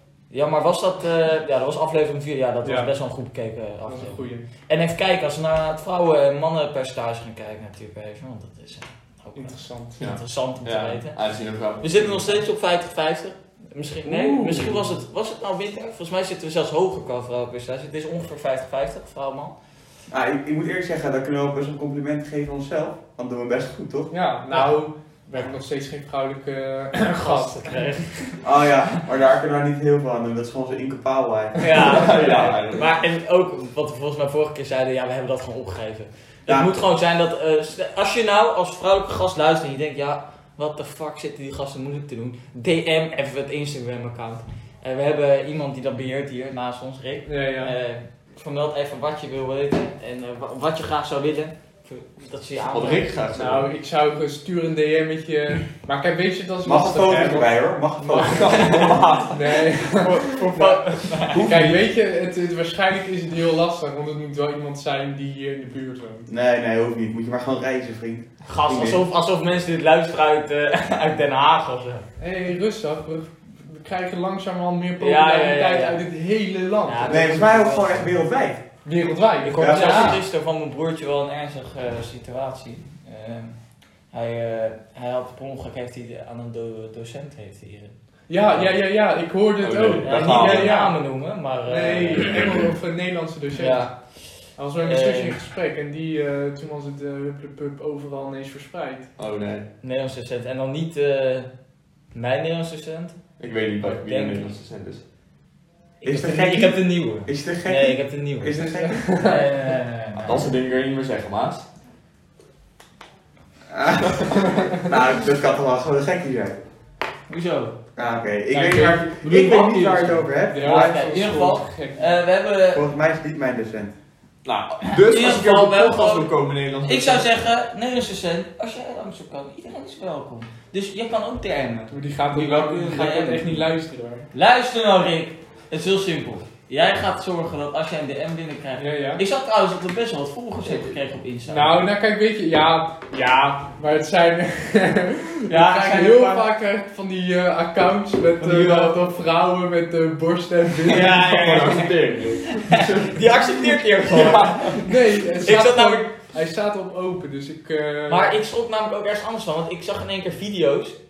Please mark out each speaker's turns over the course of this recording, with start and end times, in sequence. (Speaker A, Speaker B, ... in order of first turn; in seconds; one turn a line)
Speaker A: 0.3-11.2
Speaker B: 2.6-2.9
Speaker B: 3.9-4.5
Speaker B: 9.3-10.0
Speaker C: 10.0-12.3
Speaker A: 11.8-19.6
Speaker B: 14.1-15.0
Speaker D: 20.1-24.1
Speaker B: 24.1-27.9
Speaker A: 27.1-28.5
Speaker D: 28.4-31.9
Speaker A: 31.6-53.1
Speaker C: 31.8-32.9
Speaker B: 32.2-32.5
Speaker D: 36.5-36.7
Speaker B: 47.3-47.7
Speaker C: 52.7-53.7
Speaker B: 53.4-66.3
Speaker D: 56.6-58.9
Speaker C: 58.2-59.6
Speaker A: 58.6-59.0
Speaker A: 59.9-61.5
Speaker C: 61.3-61.8
Speaker D: 66.3-69.0
Speaker A: 68.5-72.1
Speaker B: 72.2-77.4
Speaker A: 75.0-76.0
Speaker A: 76.8-78.1
Speaker D: 77.1-78.6
Speaker B: 78.8-80.2
Speaker A: 79.5-83.6
Speaker D: 79.6-80.2
Speaker A: 84.1-88.7
Speaker B: 88.3-91.1
Speaker C: 89.6-90.8
Speaker A: 90.0-92.6
Speaker B: 91.7-94.0
Speaker A: 93.6-95.4
Speaker B: 94.5-99.1
Speaker C: 99.2-99.7
Speaker A: 99.8-101.5
Speaker A: 102.1-103.2
Speaker C: 103.4-105.0
Speaker A: 103.8-104.5
Speaker A: 106.0-110.5
Speaker D: 106.0-109.1
Speaker B: 108.5-109.4
Speaker C: 110.2-111.7
Speaker D: 113.7-116.6
Speaker A: 117.3-117.8
Speaker D: 118.0-121.1
Speaker A: 118.5-122.8
Speaker B: 120.5-122.1
Speaker D: 122.7-123.9
Speaker C: 124.5-127.3
Speaker A: 124.8-126.3
Speaker A: 126.8-133.7
Speaker B: 131.9-134.3
Speaker A: 134.3-141.9
Speaker B: 138.8-139.2
Speaker C: 140.6-141.0
Speaker B: 141.5-151.2
Speaker A: 145.5-146.5
Speaker C: 148.4-149.0
Speaker A: 150.9-156.1
Speaker C: 150.9-154.9
Speaker B: 154.8-158.3
Speaker A: 158.1-161.0